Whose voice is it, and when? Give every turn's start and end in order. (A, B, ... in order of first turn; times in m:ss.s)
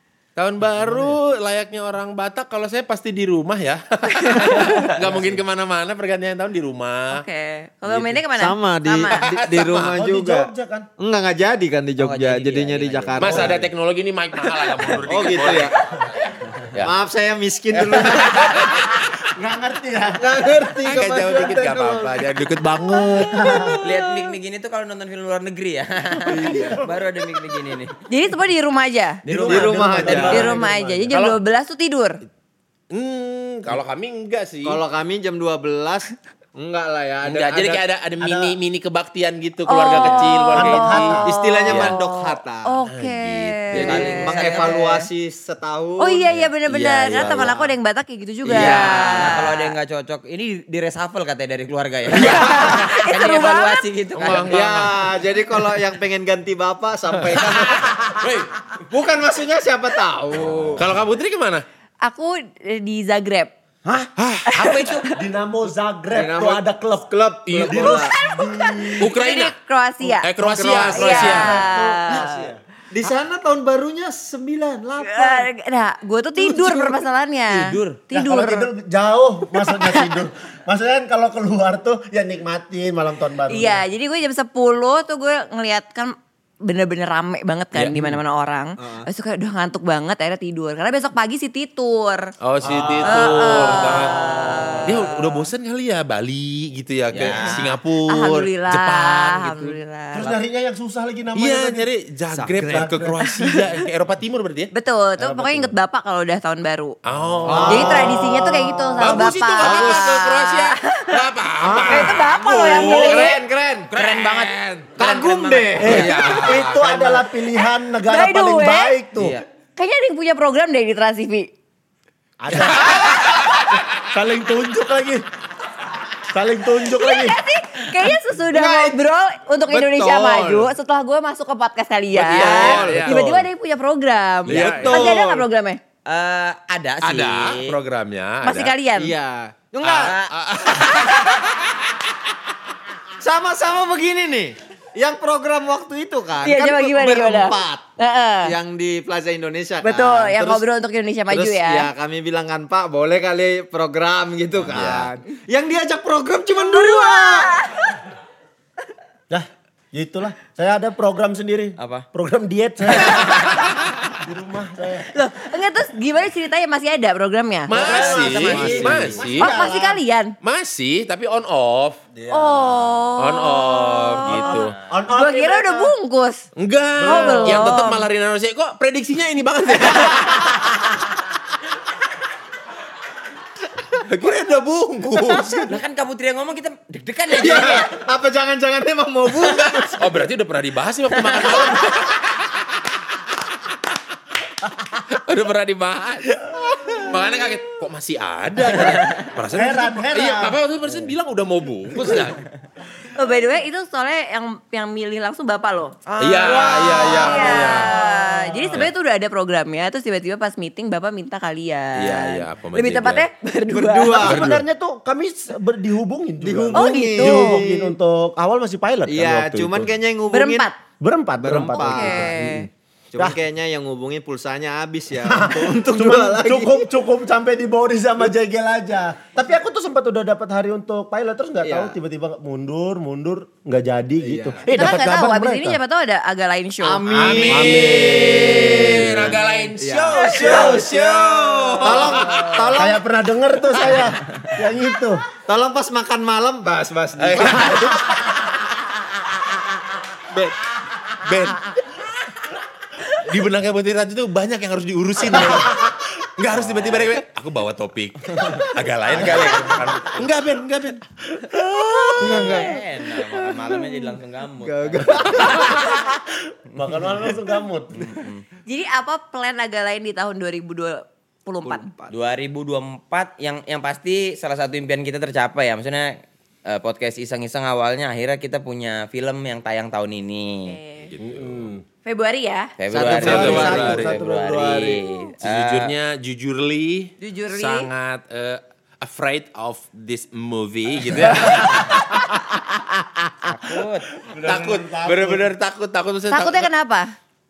0:00.4-0:07.2 A
0:04.1-0:04.9 B
0:05.0-0:05.3 C
0:07.1-0:09.3 B
0:07.9-0:08.2 A
0:08.3-0:13.7 C
0:09.2-0:10.0 A
0:09.9-0:10.9 D
0:12.0-0:13.6 E
0:13.2-0:15.8 A
0:14.5-0:15.0 B
0:15.0-0:15.8 C
0:16.7-0:18.6 C
0:17.8-0:19.1 A
0:19.2-0:20.8 D
0:20.2-0:22.1 C
0:20.8-0:23.5 A
0:22.8-0:23.8 D
0:23.6-0:24.3 B
0:23.8-0:28.0 E
0:26.2-0:26.8 C
0:28.1-0:29.2 B
0:29.2-0:30.7 E
0:29.3-0:30.6 C
0:29.5-0:31.1 D
0:30.1-0:32.2 B
0:31.1-0:31.4 A
0:32.9-0:34.8 A
0:34.6-0:37.8 C
0:37.2-0:42.0 A
0:38.2-0:38.5 D
0:39.6-0:45.1 B
0:40.5-0:41.4 D
0:41.2-0:42.8 C
0:42.9-0:44.2 A
0:43.7-0:47.7 C
0:43.8-0:44.8 E
0:46.0-0:49.7 B
0:48.4-0:49.4 C
0:48.5-0:54.6 E
0:52.1-0:53.8 B
0:52.2-0:52.8 C
0:54.2-0:55.1 A
0:54.4-1:00.8 C
0:57.2-0:58.5 A
1:00.7-1:01.6 A
1:02.0-1:03.5 B
1:03.8-1:05.1 E
1:04.2-1:05.0 A
1:04.4-1:05.2 B
1:05.1-1:09.1 D
1:06.1-1:08.1 C
1:07.5-1:08.0 A
1:08.0-1:12.4 B
1:09.0-1:11.6 A
1:10.4-1:15.5 C
1:11.1-1:12.6 D
1:15.0-1:18.7 B
1:16.4-1:17.0 C
1:17.5-1:18.0 E
1:18.1-1:23.8 D
1:19.5-1:20.1 B
1:23.5-1:32.3 B
1:27.7-1:28.2 A
1:28.8-1:29.1 C
1:32.4-1:34.2 A
1:32.6-1:33.4 D
1:32.7-1:33.4 C
1:33.0-1:35.4 B
1:33.8-1:35.1 E
1:34.8-1:39.6 A
1:37.1-1:37.8 E
1:37.1-1:37.5 C
1:38.0-1:40.3 B
1:40.1-1:41.8 D
1:41.3-1:44.7 A
1:42.3-1:42.9 C
1:42.7-1:43.2 D
1:43.2-1:43.6 B
1:44.7-1:46.9 B
1:45.2-1:45.7 D
1:47.0-1:48.2 A
1:47.4-1:48.2 D
1:47.4-1:50.2 C
1:47.6-1:51.2 B
1:49.0-1:53.4 A
1:51.6-1:52.2 D
1:51.8-1:53.4 B
1:52.2-1:53.9 C
1:53.9-1:56.5 E
1:54.0-1:54.9 A
1:55.0-1:57.2 C
1:55.8-1:59.4 D
1:55.8-1:56.8 A
1:58.0-1:59.0 B
1:59.2-1:59.4 E
1:59.8-2:01.5 B
2:02.4-2:05.2 D
2:02.8-2:03.3 A
2:06.3-2:07.4 D
2:06.9-2:15.8 B
2:08.5-2:09.0 C
2:09.7-2:10.7 C
2:12.1-2:13.2 A
2:12.2-2:13.4 C
2:13.1-2:13.4 D
2:14.4-2:15.5 C
2:14.5-2:15.1 A
2:16.0-2:17.8 E
2:17.0-2:18.7 A
2:18.4-2:19.1 B
2:19.0-2:20.1 C
2:19.8-2:21.8 A
2:20.0-2:20.3 E
2:23.2-2:27.8 C
2:26.4-2:28.6 B
2:28.4-2:30.6 C
2:29.8-2:31.9 B
2:31.3-2:37.5 C
2:34.6-2:35.1 A
2:36.5-2:38.0 B
2:39.3-2:43.4 D
2:41.8-2:42.1 E
2:44.2-2:45.1 D
2:45.1-2:48.0 B
2:47.7-2:49.6 A
2:47.7-2:50.0 D
2:47.7-2:49.3 C
2:49.4-2:50.3 B
2:50.4-2:52.1 A
2:52.2-2:52.7 D
2:52.3-2:56.4 B
2:53.2-2:54.7 A
2:54.2-2:55.9 D
2:56.6-3:00.6 A
2:57.0-2:57.8 D
2:57.0-2:58.0 B
3:04.2-3:05.8 C
3:05.0-3:05.4 A
3:05.7-3:07.9 E
3:07.3-3:10.2 C
3:09.3-3:12.3 A
3:15.1-3:22.4 A
3:19.5-3:20.6 D
3:23.1-3:26.0 B
3:26.1-3:27.0 E
3:26.2-3:27.9 A
3:26.5-3:27.5 C
3:26.6-3:34.4 B
3:28.0-3:28.8 D
3:32.0-3:33.2 A
3:33.7-3:34.6 C
3:34.2-3:39.9 D
3:34.2-3:34.6 A
3:36.4-3:37.9 C
3:36.7-3:37.6 B
3:39.1-3:40.7 C
3:40.3-3:40.8 B
3:41.0-3:43.4 D
3:41.4-3:42.4 C
3:41.8-3:42.7 B
3:43.1-3:46.8 C
3:45.2-3:55.8 D
3:51.6-3:52.0 C
3:54.2-3:54.7 C
3:54.7-3:57.1 B
3:56.8-4:03.0 C
3:57.1-4:02.8 A
3:57.2-3:59.3 D
4:00.1-4:00.7 B
4:00.5-4:00.9 D
4:02.7-4:05.2 D
4:05.4-4:07.9 C
4:07.2-4:08.4 A
4:11.2-4:11.6 A
4:13.2-4:22.5 A
4:15.3-4:15.7 D
4:16.6-4:17.1 C
4:19.1-4:20.1 D
4:21.9-4:24.0 C
4:22.2-4:25.8 E
4:24.6-4:25.8 C
4:25.3-4:28.1 D
4:27.9-4:28.4 E
4:28.6-4:31.9 B
4:31.6-4:32.1 C
4:32.1-4:40.8 E
4:40.7-4:41.1 B
4:41.0-4:41.7 A
4:41.2-4:41.8 D
4:42.0-4:42.7 B
4:42.8-4:45.9 E
4:42.9-4:44.0 C
4:43.0-4:44.2 A
4:43.1-4:45.0 D
4:45.4-4:52.1 A
4:47.2-4:47.9 B
4:51.0-4:51.6 B
4:53.4-4:54.1 E
4:54.2-4:55.5 D
4:54.4-4:56.7 A
4:56.3-4:57.1 B